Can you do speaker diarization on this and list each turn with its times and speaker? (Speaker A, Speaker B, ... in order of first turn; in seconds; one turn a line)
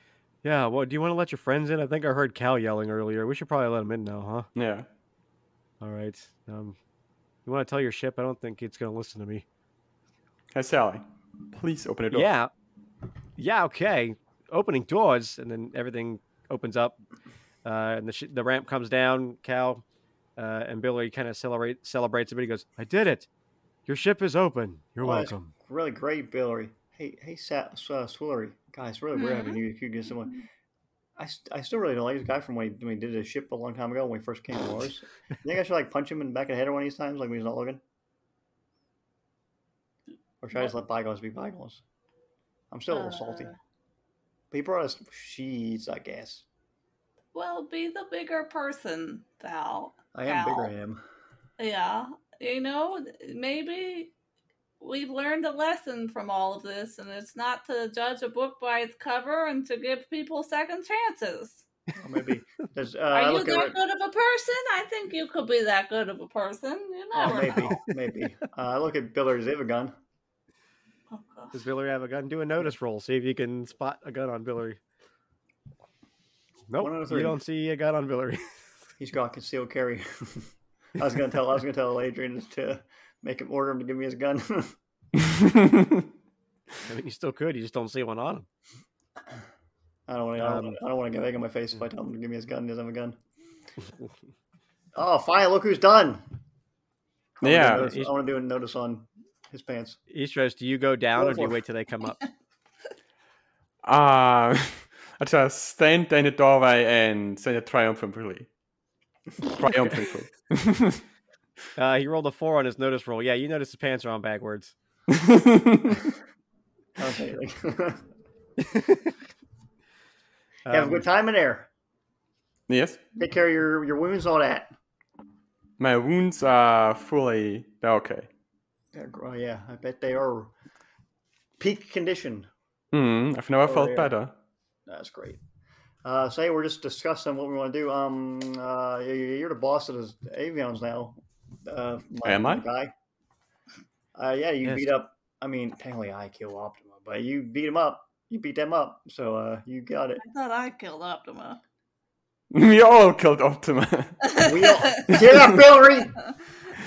Speaker A: 0.4-4.5
Speaker B: 4.5-4.8
Speaker A: 5.8-6.8
Speaker A: 7.5-9.4
Speaker B: 10.5-12.3
Speaker A: 12.1-12.5
Speaker A: 13.4-17.0
Speaker A: 17.6-19.8
Speaker A: 20.4-23.3
Speaker A: 23.9-25.5
Speaker C: 25.0-30.4
Speaker D: 29.1-29.6
Speaker C: 31.2-37.8
Speaker C: 40.4-41.8
Speaker C: 42.7-43.5
Speaker D: 42.9-43.5
Speaker C: 44.5-46.5
Speaker D: 47.3-50.7
Speaker C: 50.1-51.0
Speaker D: 51.6-54.1
Speaker D: 54.8-61.6
Speaker C: 62.0-63.8
Speaker D: 63.1-67.8
Speaker C: 67.1-69.9
Speaker D: 71.1-71.5
Speaker A: 71.5-74.8
Speaker A: 76.7-78.6
Speaker C: 76.8-77.4
Speaker C: 79.0-84.7
Speaker B: 85.2-86.0
Speaker A: 86.8-88.5
Speaker C: 90.1-93.2
Speaker A: 90.4-90.8
Speaker C: 94.9-96.2
Speaker C: 97.4-100.0
Speaker B: 97.4-97.8
Speaker A: 97.6-98.1
Speaker A: 100.1-102.2
Speaker C: 101.2-101.6
Speaker B: 103.8-108.5
Speaker B: 109.4-111.0
Speaker A: 111.8-114.7
Speaker B: 115.1-116.0
Speaker C: 117.0-118.0
Speaker A: 118.6-119.1
Speaker A: 120.7-121.0
Speaker C: 120.7-121.7
Speaker B: 122.7-123.0
Speaker C: 123.2-124.7
Speaker B: 125.8-128.3
Speaker C: 128.9-130.5
Speaker C: 131.6-132.5
Speaker B: 132.9-134.3
Speaker C: 133.6-134.1
Speaker C: 134.9-135.4
Speaker C: 136.0-142.9
Speaker B: 142.2-142.6
Speaker C: 144.2-150.2
Speaker A: 144.6-144.9
Speaker D: 150.2-151.6
Speaker B: 152.5-154.2
Speaker D: 154.2-155.2
Speaker C: 154.4-156.2
Speaker B: 155.1-155.6